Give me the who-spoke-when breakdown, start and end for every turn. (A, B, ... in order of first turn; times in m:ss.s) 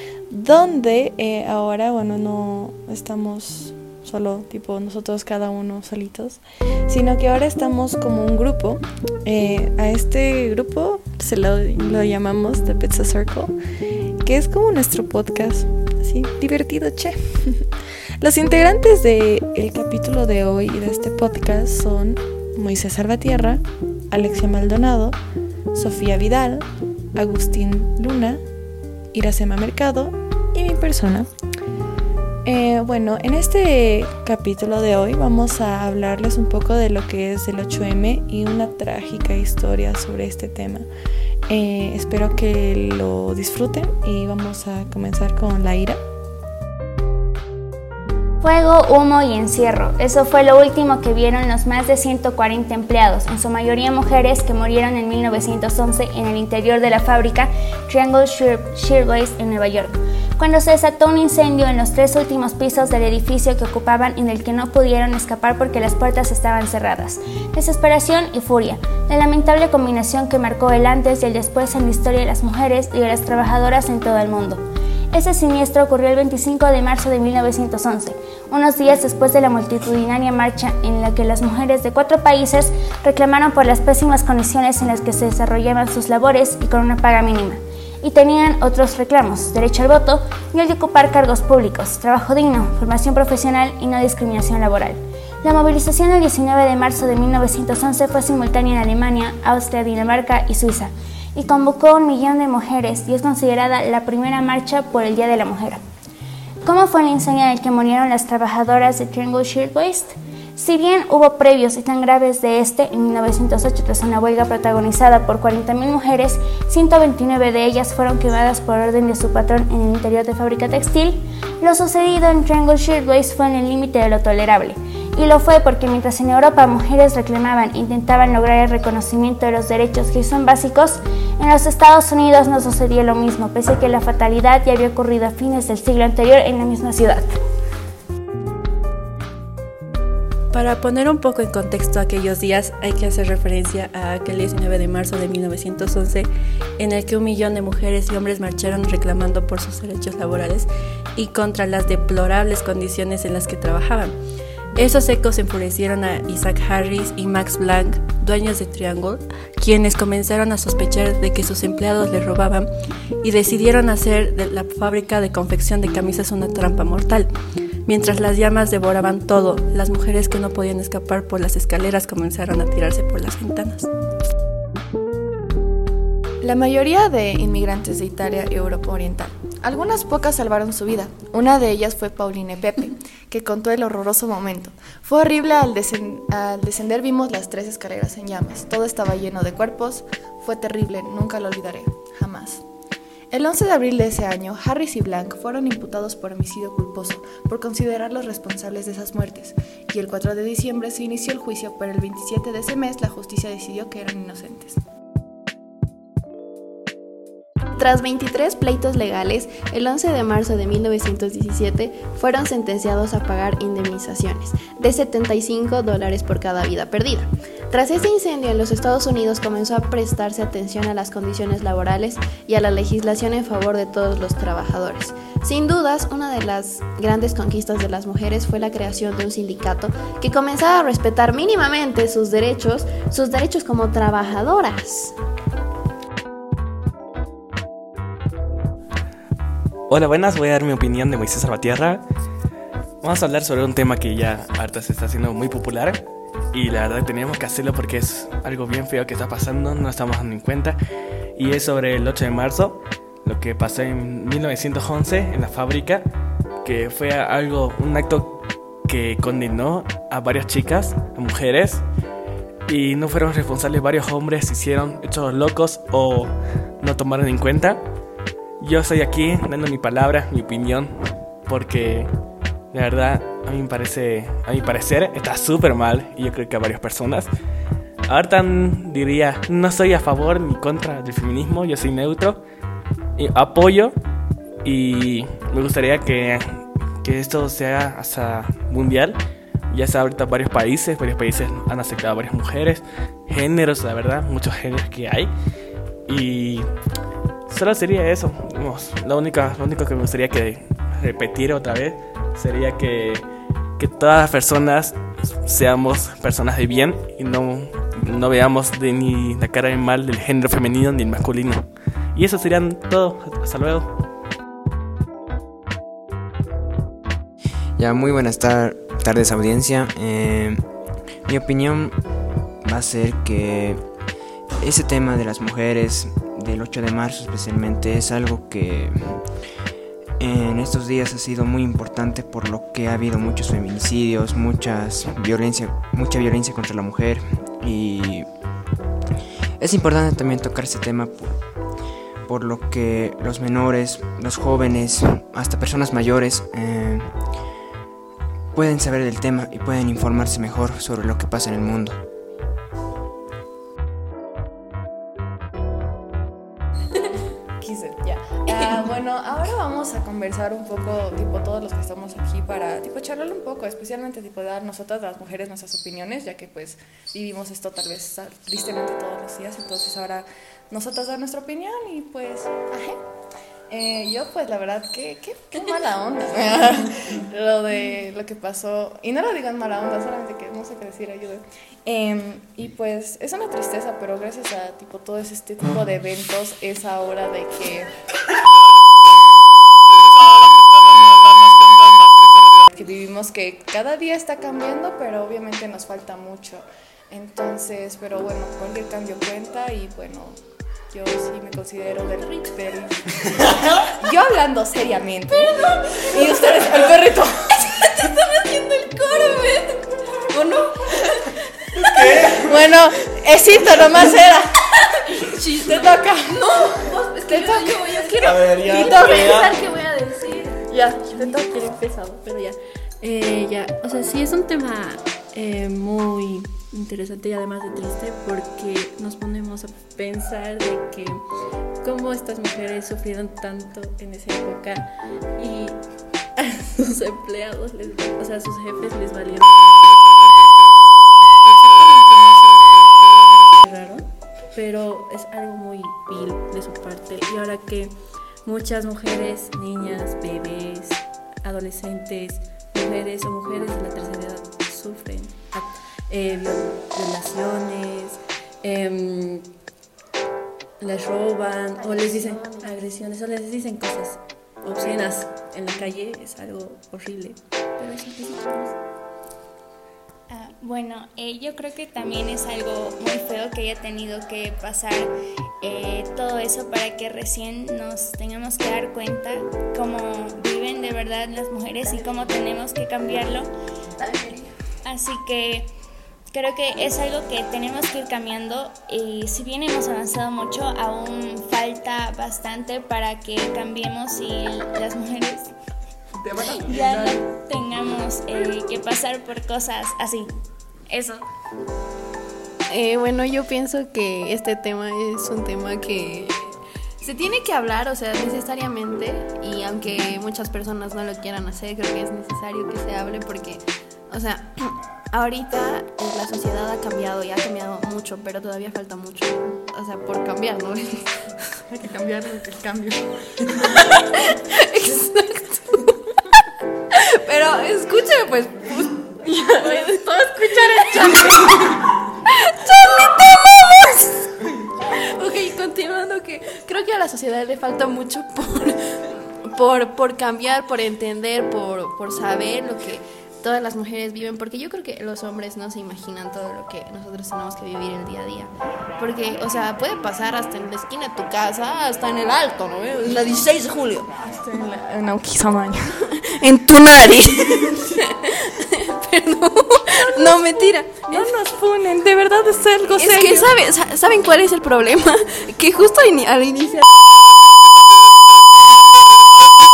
0:00.3-0:13.5 A
0:14.2-0:17.6 A
0:18.2-0:25.2 A
0:25.7-0:28.4 A
0:29.1-0:31.3 A
0:32.4-0:40.9 A
0:41.5-0:46.0 A
0:48.4-1:45.8 B
1:46.6-2:17.3 B
2:20.5-2:26.3 C
2:26.8-2:34.1 C
2:34.8-2:42.7 C
2:43.2-2:47.3 C
2:47.8-2:53.9 C
2:56.4-3:12.6 A
3:13.3-3:24.8 A
3:27.8-3:55.2 D
3:59.9-4:02.0 E
4:03.0-4:06.0 E
4:06.5-4:10.8 E
4:11.4-4:16.1 E
4:16.6-4:21.8 E
4:22.7-4:27.8 E
4:28.6-4:30.9 E
4:31.4-4:32.1 E
4:32.7-4:37.3 E
4:38.1-4:42.4 E
4:43.2-4:43.9 E
4:44.6-4:49.2 E
4:49.7-4:55.3 E
4:56.1-4:56.7 E
4:57.5-5:03.2 E
5:03.8-5:11.6 E
5:12.1-5:13.9 E
5:17.8-5:20.6 F
5:21.3-5:22.0 F
5:22.6-5:23.8 F
5:24.6-5:29.3 F
5:30.2-5:38.3 F
5:39.6-5:41.4 F
5:42.2-5:47.2 F
5:48.5-5:52.0 F
5:57.6-6:12.9 A
6:13.7-6:27.9 A
6:32.7-6:40.4 A
6:40.9-6:47.6 A
6:45.3-6:46.6 D
6:47.7-6:51.2 D
6:51.9-6:52.3 D
6:52.2-6:54.6 A
6:55.2-7:00.5 D
6:55.5-6:59.3 A
6:58.3-6:58.8 E
7:00.6-7:01.6 A
7:00.8-7:11.2 C
7:11.8-7:15.8 C
7:16.4-7:20.1 C
7:21.6-7:39.4 C
7:40.8-7:48.8 C
7:41.8-7:42.7 D
7:50.3-8:03.5 B
8:04.0-8:04.4 D
8:04.8-8:05.7 B
8:06.3-8:15.5 B
8:16.4-8:20.3 B
8:20.9-8:21.2 B
8:22.7-8:41.6 D
8:41.7-8:43.1 A
8:43.6-8:46.1 D
8:46.9-9:14.1 D
9:14.2-9:16.2 A
9:16.4-9:21.4 D
9:20.0-9:23.6 A
9:23.0-9:26.8 D